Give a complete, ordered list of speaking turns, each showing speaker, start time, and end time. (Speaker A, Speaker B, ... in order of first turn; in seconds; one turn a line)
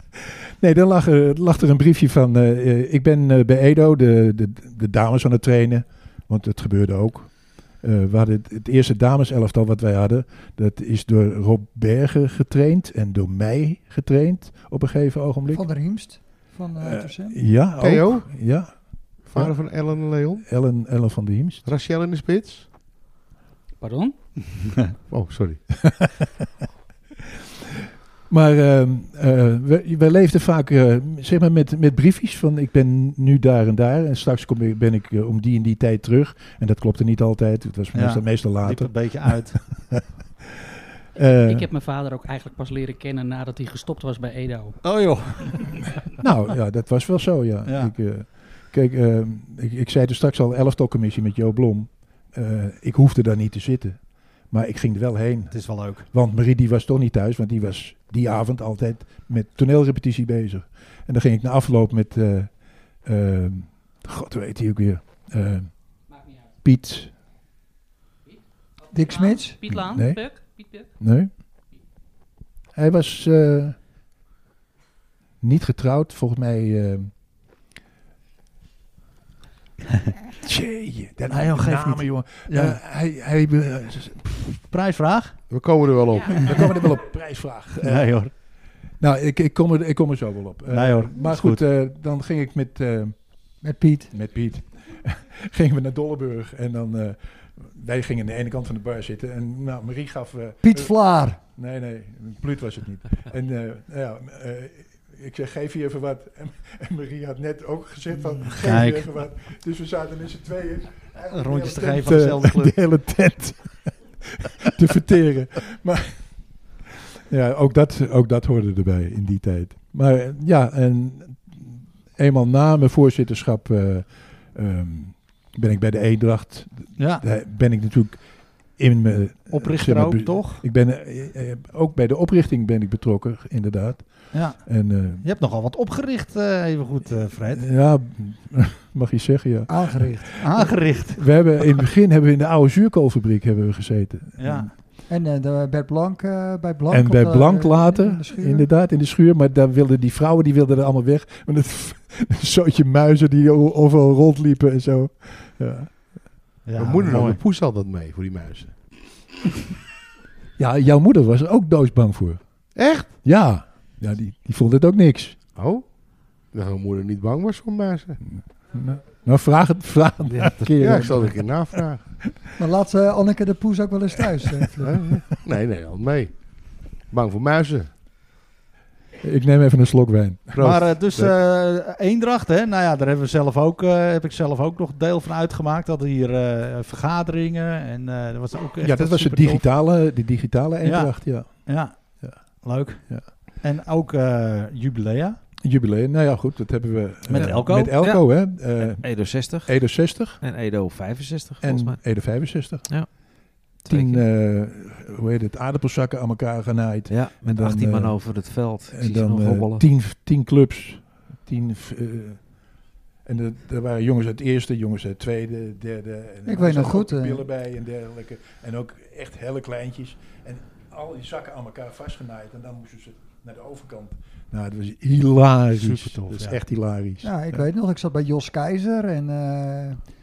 Speaker A: 0.6-15.7
Speaker B: 15.5-17.4
Speaker A: 16.8-21.6
Speaker C: 17.8-18.5
Speaker C: 19.2-20.4
Speaker C: 21.6-22.6
Speaker D: 23.8-24.1
Speaker C: 25.1-25.6
Speaker A: 25.8-26.1
Speaker A: 28.3-40.0
Speaker E: 37.9-39.6
Speaker A: 41.1-41.7
Speaker D: 41.5-44.8
Speaker E: 44.8-45.7
Speaker A: 46.2-66.0
Speaker E: 47.6-47.9
Speaker E: 55.5-56.1
Speaker A: 66.6-67.1
Speaker B: 68.9-69.6
Speaker D: 69.1-70.9
Speaker A: 69.7-70.2
Speaker A: 71.0-71.3
Speaker A: 72.8-73.8
Speaker A: 75.4-77.1
Speaker A: 80.4-84.6
Speaker E: 81.3-82.8
Speaker E: 84.7-85.4
Speaker C: 85.5-86.5
Speaker A: 86.3-88.2
Speaker E: 87.8-88.3
Speaker A: 89.0-93.1
Speaker E: 90.7-91.6
Speaker B: 93.6-94.1
Speaker A: 94.1-116.2
Speaker B: 100.6-101.4
Speaker E: 108.4-109.0
Speaker E: 111.3-112.7
Speaker A: 117.3-128.2
Speaker E: 127.0-127.2
Speaker A: 128.8-135.2
Speaker E: 129.5-130.6
Speaker E: 134.3-134.7
Speaker E: 135.2-137.6
Speaker A: 137.5-144.7
Speaker B: 139.7-140.3
Speaker E: 140.4-141.8
Speaker E: 144.4-144.7
Speaker B: 145.1-148.7
Speaker A: 146.9-156.2
Speaker E: 156.6-157.4
Speaker C: 156.8-158.7
Speaker A: 160.6-162.4
Speaker C: 162.7-163.1
Speaker A: 163.2-165.4
Speaker C: 165.5-165.9
Speaker C: 166.5-168.2
Speaker A: 168.2-171.8
Speaker F: 170.2-171.2
Speaker C: 170.8-172.1
Speaker B: 172.6-175.0
Speaker C: 174.8-177.9
Speaker A: 179.2-180.6
Speaker C: 180.5-181.3
Speaker E: 180.6-189.6
Speaker A: 188.8-192.4
Speaker E: 190.8-195.4
Speaker A: 193.1-193.3
Speaker A: 195.6-200.4
Speaker E: 197.3-198.1
Speaker F: 197.3-203.2
Speaker A: 201.6-203.3
Speaker F: 203.8-204.2
Speaker A: 203.9-212.5
Speaker F: 207.1-209.9
Speaker A: 213.2-227.7
Speaker B: 216.4-217.4
Speaker E: 225.8-226.5
Speaker B: 227.2-230.0